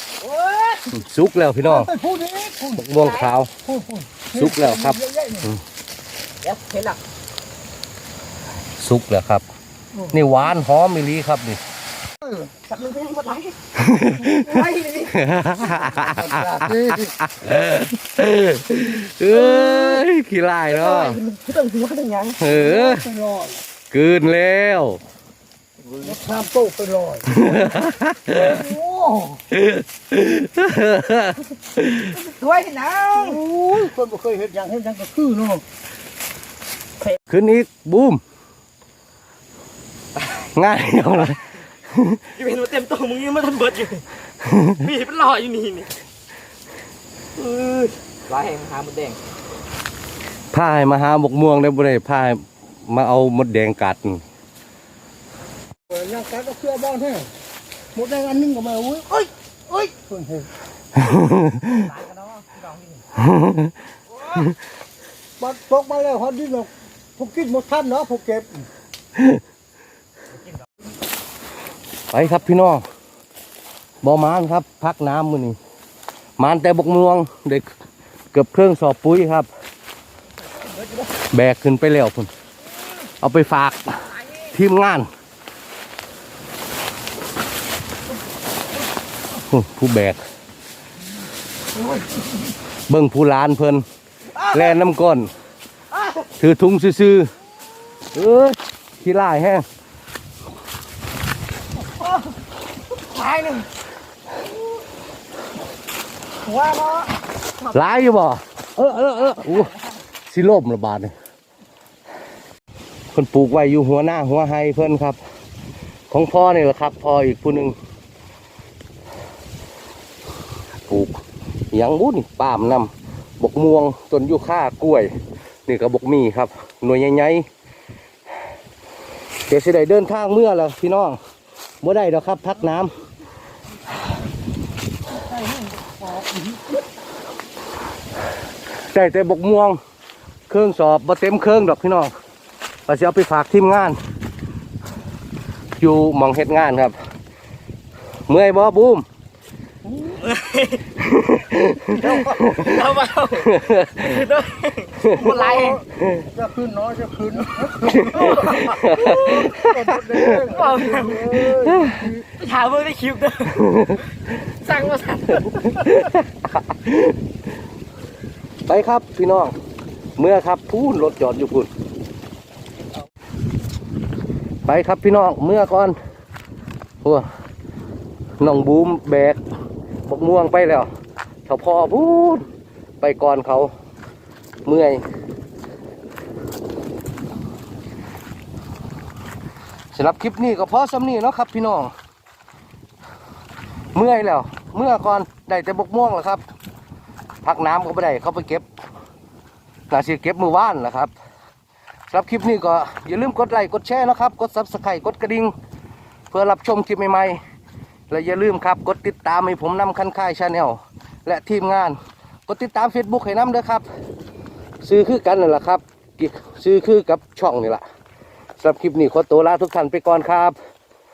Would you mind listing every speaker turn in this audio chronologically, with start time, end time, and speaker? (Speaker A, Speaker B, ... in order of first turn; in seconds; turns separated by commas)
Speaker A: 0.2-0.9, Speaker B: 0.9-1.9, Speaker C: 1.8-2.8, Speaker B: 2.7-3.5, Speaker A: 3.0-3.3, Speaker C: 3.6-5.5, Speaker B: 4.3-5.6, Speaker A: 6.4-7.0, Speaker B: 8.8-9.4, Speaker B: 10.1-11.6, Speaker A: 12.7-13.6, Speaker B: 13.7-21.2, Speaker A: 14.2-15.1, Speaker A: 15.8-16.7, Speaker A: 19.3-20.0, Speaker A: 20.7-22.4, Speaker B: 22.4-23.1, Speaker C: 22.5-23.6, Speaker B: 23.9-25.0, Speaker A: 25.9-26.2, Speaker C: 26.0-27.4, Speaker B: 27.3-28.6, Speaker C: 28.3-29.4, Speaker B: 29.5-32.2, Speaker A: 32.1-33.4, Speaker C: 33.1-35.6, Speaker B: 37.3-38.2, Speaker B: 40.4-42.2, Speaker A: 42.3-44.0, Speaker B: 44.4-44.9, Speaker A: 44.8-45.9, Speaker A: 47.4-49.2, Speaker B: 50.5-54.2, Speaker C: 55.9-57.3, Speaker C: 57.9-60.5, Speaker B: 61.0-61.9, Speaker A: 61.8-63.0, Speaker B: 63.1-63.7, Speaker C: 65.4-68.7, Speaker B: 69.2-69.4, Speaker B: 72.1-72.8, Speaker B: 74.0-75.6, Speaker B: 76.4-77.7, Speaker B: 78.3-79.5, Speaker B: 81.3-82.3, Speaker B: 83.2-85.1, Speaker B: 89.4-90.2, Speaker B: 92.9-93.8, Speaker B: 94.4-95.3, Speaker B: 96.4-97.3, Speaker B: 98.1-99.6, Speaker A: 103.1-103.7, Speaker A: 106.4-107.7, Speaker B: 107.7-109.7, Speaker B: 110.3-111.1, Speaker B: 113.1-115.2, Speaker B: 116.1-117.8, Speaker B: 120.9-121.2, Speaker B: 121.7-125.1, Speaker B: 125.7-127.5, Speaker B: 129.5-131.2, Speaker B: 131.8-132.9, Speaker C: 135.2-136.8, Speaker B: 138.9-139.8, Speaker B: 140.5-142.1, Speaker B: 142.9-144.0, Speaker B: 145.8-146.9, Speaker B: 148.3-149.0, Speaker C: 149.9-150.2, Speaker A: 150.2-150.8, Speaker B: 151.0-152.8, Speaker A: 152.0-155.8, Speaker B: 153.4-154.2, Speaker C: 155.1-162.2, Speaker B: 157.9-160.4, Speaker A: 158.3-159.5, Speaker A: 160.4-161.6, Speaker B: 161.7-162.0, Speaker A: 162.2-166.1, Speaker B: 163.5-164.0, Speaker B: 165.8-167.1, Speaker B: 168.7-169.5, Speaker B: 170.2-171.7, Speaker B: 174.7-176.0, Speaker B: 178.4-179.4, Speaker B: 180.1-180.9, Speaker B: 181.4-182.4, Speaker B: 183.0-183.7, Speaker B: 184.6-185.0, Speaker B: 189.9-191.9, Speaker B: 193.9-196.4, Speaker B: 197.4-198.7, Speaker B: 199.9-201.1, Speaker B: 202.1-205.5, Speaker B: 206.3-207.4, Speaker B: 208.1-213.8, Speaker B: 214.8-217.8, Speaker B: 218.6-220.6